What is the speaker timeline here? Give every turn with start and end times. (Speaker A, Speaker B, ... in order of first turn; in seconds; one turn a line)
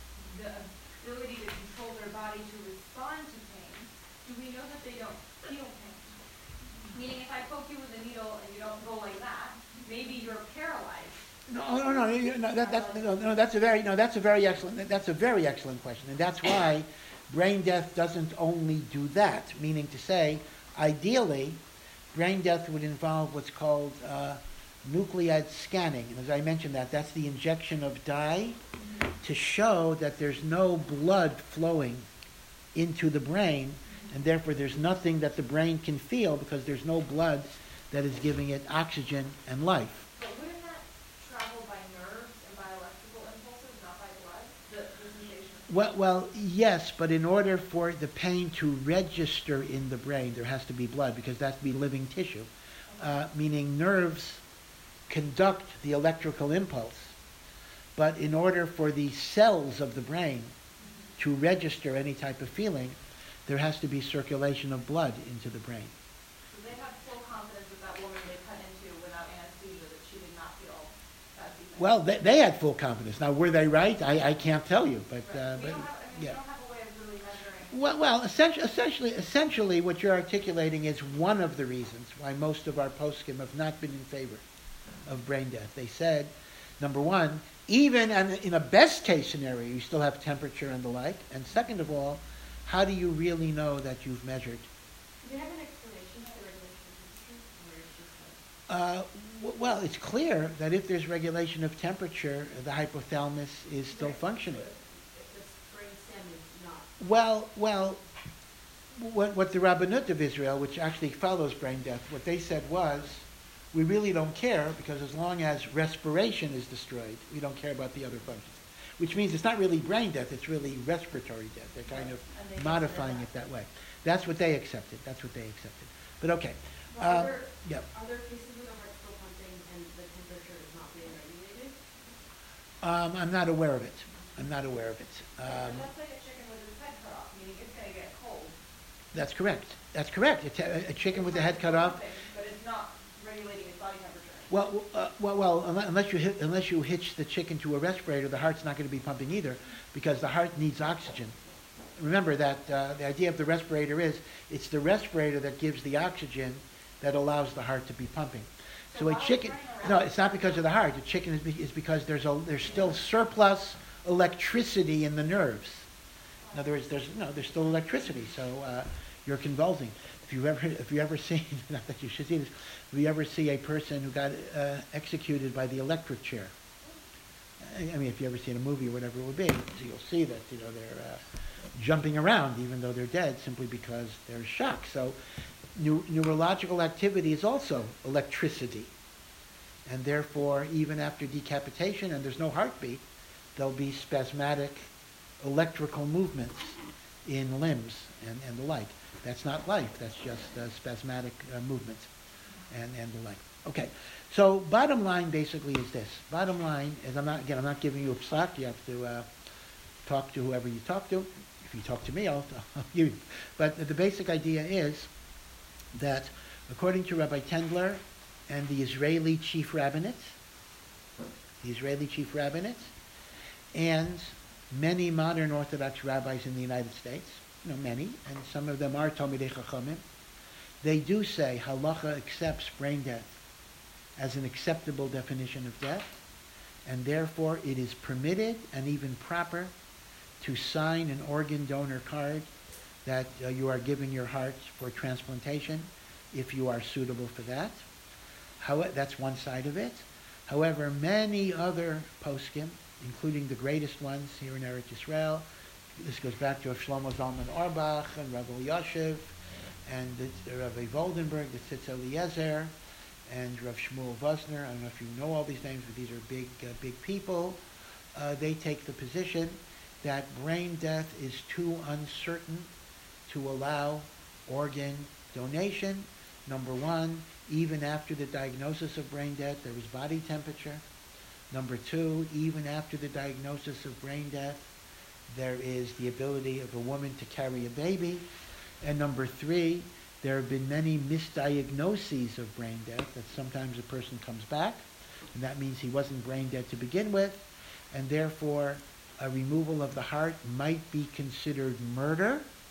Speaker A: 0.2-6.2
Speaker A: 6.8-11.2
Speaker B: 11.5-21.6
Speaker A: 12.6-13.1
Speaker B: 22.1-28.6
Speaker A: 28.8-29.1
Speaker B: 29.2-32.1
Speaker B: 32.8-40.1
Speaker A: 40.2-45.7
Speaker B: 45.7-54.4
Speaker A: 52.9-53.2
Speaker B: 55.1-57.1
Speaker B: 58.0-60.5
Speaker A: 60.8-61.1
Speaker B: 61.2-65.9
Speaker A: 66.5-71.9
Speaker B: 71.8-76.4
Speaker A: 75.3-77.8
Speaker B: 77.7-84.4
Speaker B: 85.1-94.7
Speaker C: 95.2-98.4
Speaker B: 98.7-104.7
Speaker C: 103.9-106.9
Speaker B: 107.0-108.0
Speaker B: 109.0-127.8
Speaker C: 121.9-123.3
Speaker C: 126.9-132.1
Speaker B: 132.8-135.9
Speaker A: 135.4-138.6
Speaker B: 139.1-142.0
Speaker A: 141.1-144.5
Speaker B: 144.5-151.4
Speaker B: 152.0-165.9
Speaker A: 158.9-160.7
Speaker B: 166.5-176.5
Speaker B: 177.6-181.2
Speaker B: 181.8-185.2
Speaker B: 185.8-188.9
Speaker B: 189.9-193.0
Speaker B: 193.6-202.1
Speaker B: 202.7-209.3
Speaker B: 210.1-215.1
Speaker B: 215.9-220.4
Speaker B: 221.6-222.9
Speaker B: 223.7-230.0
Speaker B: 230.8-233.3
Speaker B: 234.2-236.2
Speaker B: 236.9-239.7
Speaker B: 240.4-242.5
Speaker B: 243.1-247.9
Speaker B: 248.6-255.5
Speaker B: 256.0-259.4
Speaker B: 259.9-262.7
Speaker B: 263.3-267.6
Speaker B: 268.1-272.7
Speaker B: 273.3-280.8
Speaker B: 281.5-284.7
Speaker B: 285.3-288.3
Speaker B: 288.8-302.5